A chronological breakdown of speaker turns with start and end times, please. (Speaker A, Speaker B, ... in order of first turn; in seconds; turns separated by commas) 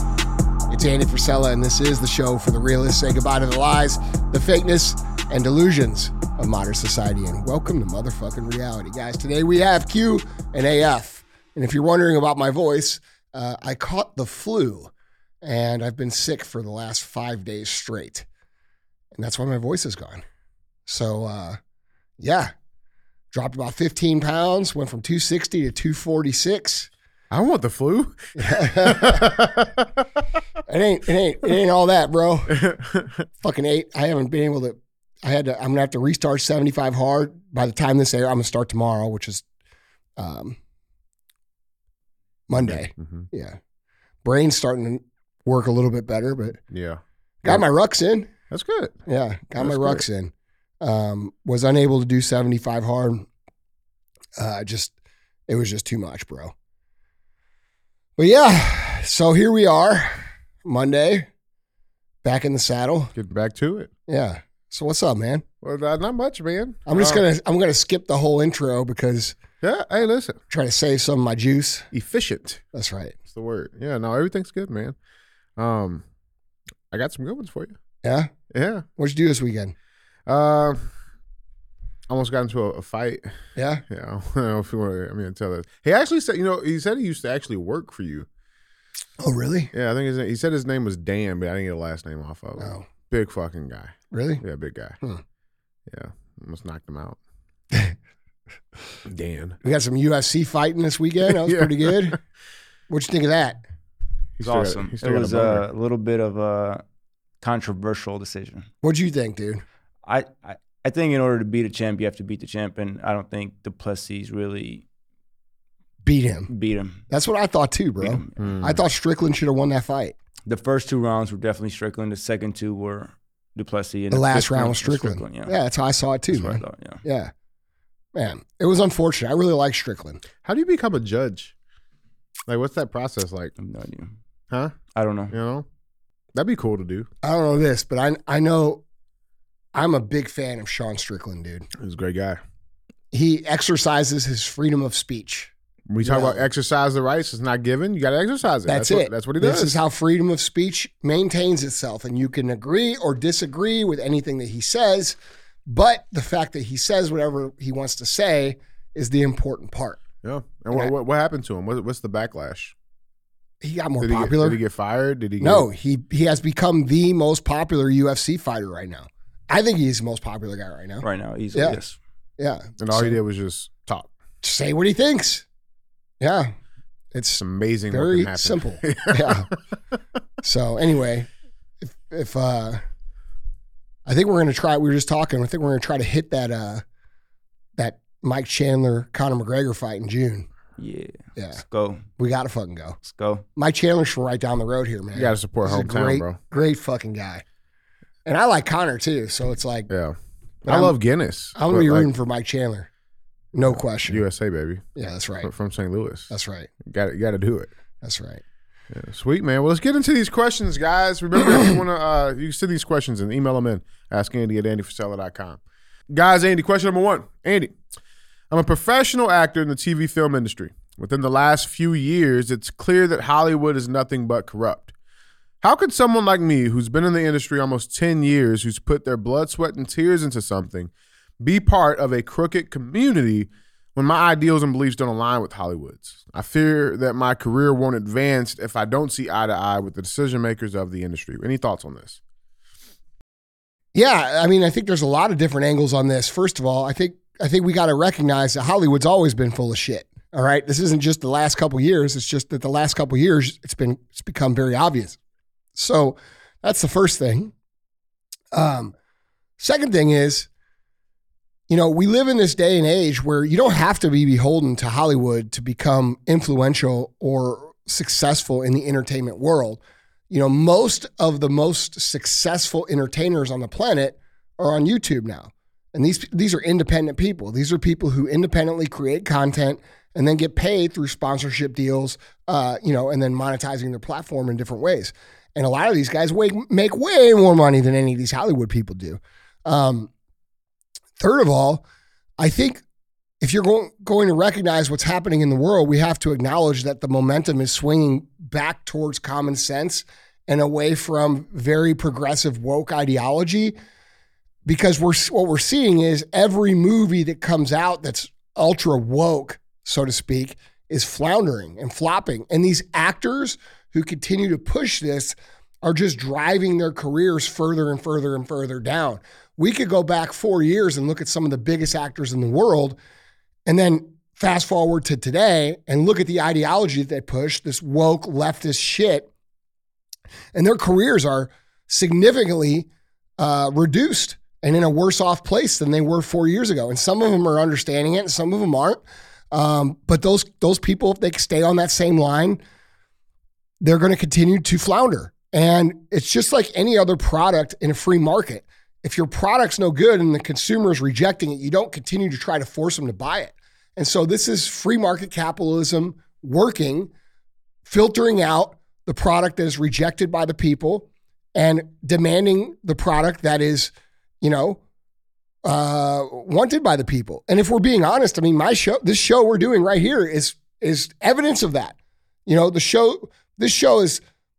Speaker A: 0.7-14.9, Speaker A: 15.4-18.2, Speaker A: 19.1-20.2, Speaker A: 20.9-21.6, Speaker A: 22.2-22.5, Speaker A: 23.3-26.9, Speaker B: 27.3-30.0, Speaker A: 28.3-29.4, Speaker A: 30.7-32.6, Speaker B: 32.5-33.2, Speaker A: 33.4-39.4, Speaker A: 40.2-40.6, Speaker A: 42.5-43.6, Speaker B: 42.5-43.3, Speaker A: 44.2-46.6, Speaker B: 46.7-47.6, Speaker A: 47.4-48.3, Speaker B: 48.5-48.9, Speaker A: 49.1-53.3, Speaker B: 49.6-50.0, Speaker A: 54.4-54.9, Speaker A: 55.5-56.5, Speaker A: 58.2-61.3, Speaker A: 62.2-63.1, Speaker B: 63.1-63.9, Speaker A: 64.1-65.4, Speaker B: 65.6-67.2, Speaker A: 66.8-69.4, Speaker B: 69.6-70.4, Speaker A: 70.5-71.9, Speaker B: 71.9-72.6, Speaker A: 72.7-73.2, Speaker B: 73.3-75.0, Speaker B: 75.6-76.0, Speaker B: 76.9-77.7, Speaker A: 78.0-78.3, Speaker B: 78.5-78.8, Speaker A: 79.0-79.7, Speaker B: 80.3-80.9, Speaker B: 82.1-83.3, Speaker A: 83.5-83.8, Speaker B: 83.9-88.3, Speaker A: 89.2-89.7, Speaker B: 89.7-95.0, Speaker A: 92.6-92.9, Speaker A: 94.1-94.4, Speaker B: 95.9-97.2, Speaker B: 99.0-99.6, Speaker A: 99.6-102.2, Speaker B: 101.3-101.9, Speaker A: 102.9-103.6, Speaker B: 104.4-105.6, Speaker C: 104.4-106.8, Speaker C: 107.4-108.7, Speaker A: 108.8-109.6, Speaker C: 110.0-114.8, Speaker A: 116.0-116.5, Speaker C: 116.5-117.0, Speaker A: 117.1-120.2, Speaker C: 118.1-118.5, Speaker B: 118.4-118.8, Speaker C: 120.5-125.5, Speaker A: 124.1-127.3, Speaker C: 126.3-127.0, Speaker A: 128.1-130.2, Speaker B: 130.4-131.5, Speaker B: 132.5-133.5, Speaker C: 133.6-134.1, Speaker C: 134.9-135.3, Speaker B: 135.3-135.7, Speaker B: 136.3-137.1, Speaker A: 137.2-138.8, Speaker A: 139.7-141.7, Speaker B: 141.8-142.4, Speaker A: 143.1-146.5, Speaker B: 145.9-149.8, Speaker A: 148.7-160.0, Speaker B: 160.2-162.7, Speaker A: 163.6-164.6, Speaker B: 164.0-165.7, Speaker A: 165.4-171.8, Speaker C: 171.0-172.0, Speaker A: 172.4-173.2, Speaker B: 172.8-174.1, Speaker A: 174.4-175.4, Speaker A: 176.2-176.5, Speaker A: 177.1-179.5, Speaker B: 177.4-179.6, Speaker A: 180.4-181.3, Speaker A: 181.8-182.8, Speaker A: 184.1-186.8, Speaker A: 187.8-190.4, Speaker C: 190.8-192.0, Speaker A: 191.3-191.6, Speaker A: 192.2-193.0, Speaker C: 193.1-193.4, Speaker A: 193.6-197.4, Speaker B: 195.1-196.4, Speaker A: 198.2-199.9, Speaker B: 199.9-202.1, Speaker A: 200.6-200.9, Speaker A: 201.5-202.9, Speaker A: 203.5-204.2, Speaker B: 203.6-206.3, Speaker A: 204.9-205.5, Speaker A: 206.3-206.7, Speaker B: 206.8-207.7, Speaker A: 208.0-208.4, Speaker B: 208.9-215.6, Speaker B: 216.1-217.8, Speaker B: 218.5-224.9, Speaker B: 225.6-242.2, Speaker A: 243.9-255.2, Speaker A: 255.8-257.5, Speaker A: 258.5-258.9, Speaker A: 259.6-260.5, Speaker A: 261.7-290.1, Speaker A: 291.2-291.8, Speaker A: 292.4-292.8, Speaker A: 293.4-303.7, Speaker A: 304.6-322.9, Speaker A: 323.7-329.3, Speaker A: 330.5-332.9, Speaker A: 333.4-339.0, Speaker A: 339.5-342.6, Speaker A: 343.8-357.1, Speaker A: 357.8-364.8, Speaker A: 365.6-374.2